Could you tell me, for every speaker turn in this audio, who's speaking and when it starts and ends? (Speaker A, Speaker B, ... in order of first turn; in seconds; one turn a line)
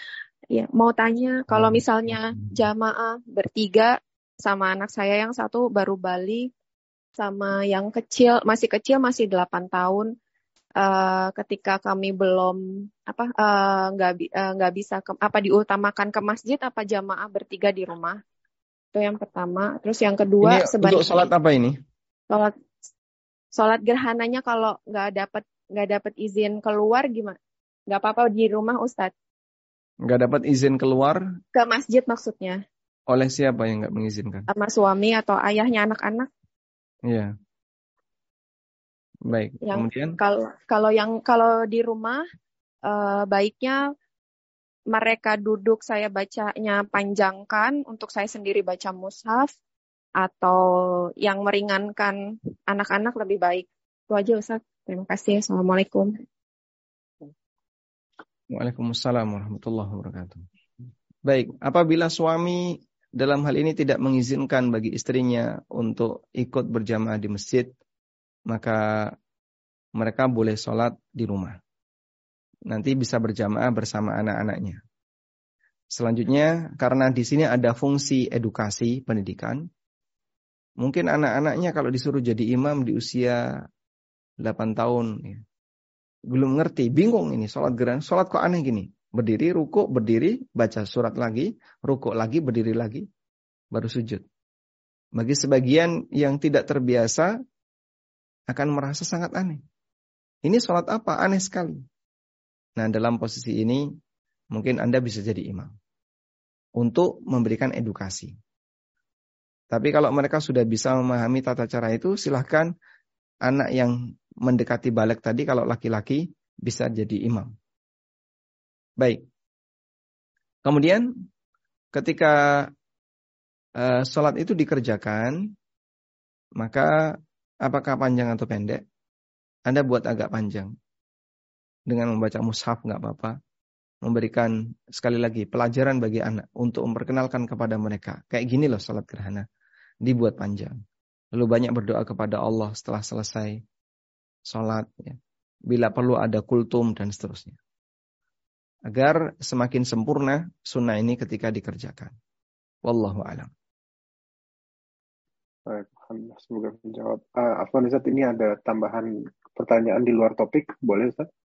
Speaker A: 0.5-6.5
Speaker B: 1.5-2.5
Speaker A: 7.2-10.1
Speaker A: 10.8-18.2
Speaker A: 18.9-21.3
Speaker B: 20.4-21.8
Speaker A: 23.5-27.4
Speaker A: 27.9-29.1
Speaker B: 30.1-31.2
Speaker A: 31.5-32.6
Speaker B: 33.1-34.5
Speaker A: 34.5-36.3
Speaker B: 37.1-37.3
Speaker B: 39.3-40.2
Speaker A: 39.6-42.2
Speaker A: 42.9-43.9
Speaker A: 44.9-49.5
Speaker A: 50.2-56.1
Speaker B: 58.5-60.5
Speaker B: 61.3-67.7
Speaker B: 68.5-69.1
Speaker B: 70.0-71.6
Speaker B: 72.7-74.8
Speaker B: 75.9-79.7
Speaker B: 80.8-83.4
Speaker B: 84.4-85.4
Speaker B: 86.3-93.1
Speaker B: 93.7-94.2
Speaker B: 95.2-97.3
Speaker B: 98.5-99.6
Speaker B: 100.4-101.8
Speaker B: 102.8-103.8
Speaker B: 104.5-105.8
Speaker B: 106.8-108.3
Speaker B: 109.7-112.7
Speaker B: 113.5-117.5
Speaker B: 120.7-121.1
Speaker B: 121.9-122.7
Speaker B: 123.8-125.5
Speaker B: 126.6-128.8
Speaker B: 129.7-130.7
Speaker B: 131.9-133.4
Speaker B: 134.0-139.5
Speaker B: 140.1-140.8
Speaker B: 141.3-143.6
Speaker B: 144.5-145.2
Speaker B: 145.7-147.6
Speaker B: 148.9-152.2
Speaker B: 152.8-153.5
Speaker C: 155.7-161.3